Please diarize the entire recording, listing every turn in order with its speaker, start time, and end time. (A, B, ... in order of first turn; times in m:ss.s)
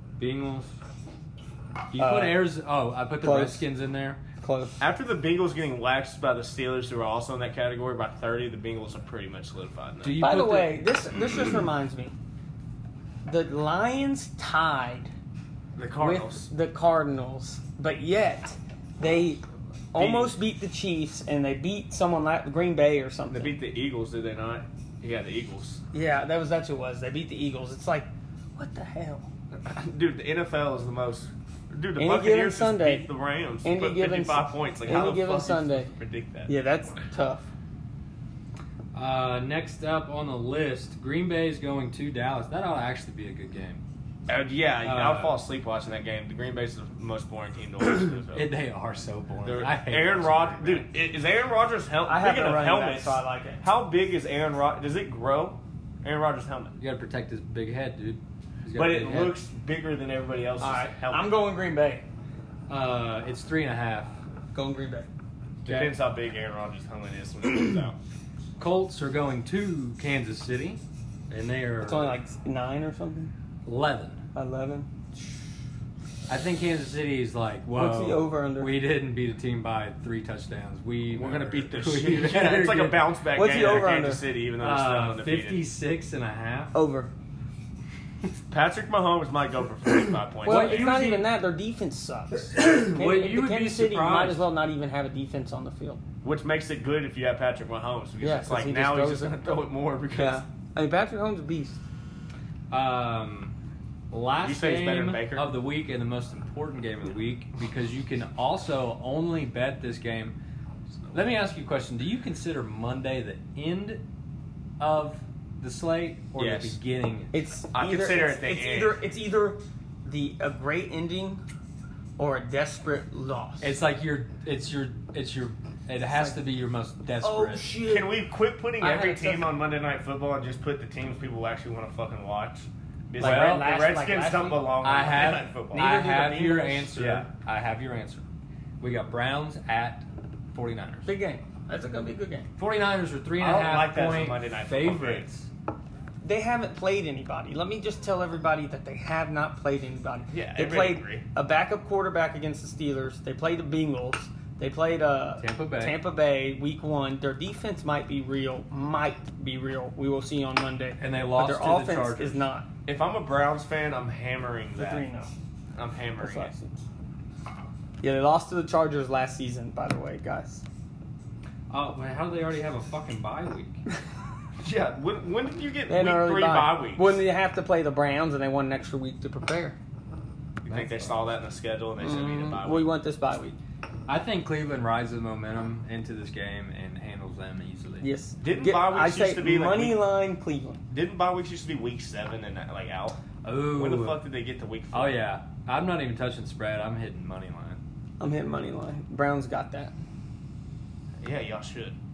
0:00.2-0:00.7 A
0:01.9-0:04.2 A
0:02.0-0:02.4 B
0:03.2-0:03.6 B
0:04.4-0:04.8 B
0:04.8-0:10.2 C
0:10.0-0:10.8 A
0:10.2-0:12.1 B
0:13.2-0:15.1 B
0:15.8-0:16.5 C
0:16.0-0:23.5 B
0:19.9-0:20.3 C
0:23.3-0:25.8 C
0:25.9-0:29.3 B
0:29.6-0:36.5 C
0:32.0-0:33.1 B
0:33.6-0:35.9 B
0:36.5-0:37.5 B
0:38.9-0:43.8 A
0:44.3-0:48.5 C
0:44.8-0:45.4 A
0:48.2-0:50.8 A
0:49.4-0:56.7 C
0:52.0-0:53.6 B
0:56.8-0:59.4 A
0:58.7-1:01.3 C
1:00.6-1:02.0 B
1:02.7-1:04.1 A
1:04.5-1:05.1 B
1:05.6-1:08.0 C
1:05.7-1:05.9 A
1:08.6-1:12.1 A
1:11.8-1:13.3 B
1:13.6-1:14.2 A
1:14.3-1:14.9 B
1:16.3-1:23.0 A
1:17.7-1:18.7 B
1:21.1-1:25.6 C
1:23.3-1:24.2 B
1:24.6-1:26.7 A
1:26.7-1:27.1 B
1:28.5-1:30.9 C
1:30.4-1:31.3 A
1:30.4-1:36.0 B
1:32.5-1:34.4 A
1:36.2-1:40.4 C
1:38.2-1:39.4 B
1:40.1-1:41.8 B
1:42.7-1:43.5 A
1:44.1-1:50.3 A
1:44.4-1:45.5 C
1:51.1-1:54.0 A
1:54.8-1:57.3 A
1:56.4-1:56.8 C
1:57.3-2:01.4 B
1:57.7-1:59.0 C
2:02.2-2:03.7 B
2:03.6-2:07.7 A
2:06.1-2:06.4 B
2:07.2-2:08.1 B
2:07.8-2:15.9 C
2:08.8-2:09.5 B
2:13.2-2:13.6 A
2:13.2-2:14.6 B
2:14.8-2:18.2 A
2:15.7-2:16.9 B
2:17.0-2:17.3 C
2:18.8-2:21.1 A
2:21.0-2:22.5 B
2:22.6-2:25.5 A
2:23.4-2:25.3 C
2:26.2-2:42.7 B
2:30.3-2:31.2 C
2:35.4-2:36.0 A
2:41.0-2:42.4 A
2:42.9-2:45.0 C
2:44.8-2:45.3 B
2:45.7-2:46.5 C
2:46.2-2:46.7 B
2:48.0-2:50.6 B
2:51.7-2:53.8 A
2:54.6-2:57.2 C
2:55.9-2:59.8 B
3:00.6-3:02.9 C
3:00.7-3:01.2 A
3:02.0-3:03.6 B
3:04.1-3:08.1 A
3:08.0-3:10.8 B
3:08.4-3:10.0 C
3:10.9-3:13.2 C
3:13.4-3:14.2 A
3:13.7-3:15.2 C
3:14.9-3:17.8 A
3:18.2-3:19.9 B
3:21.2-3:22.0 C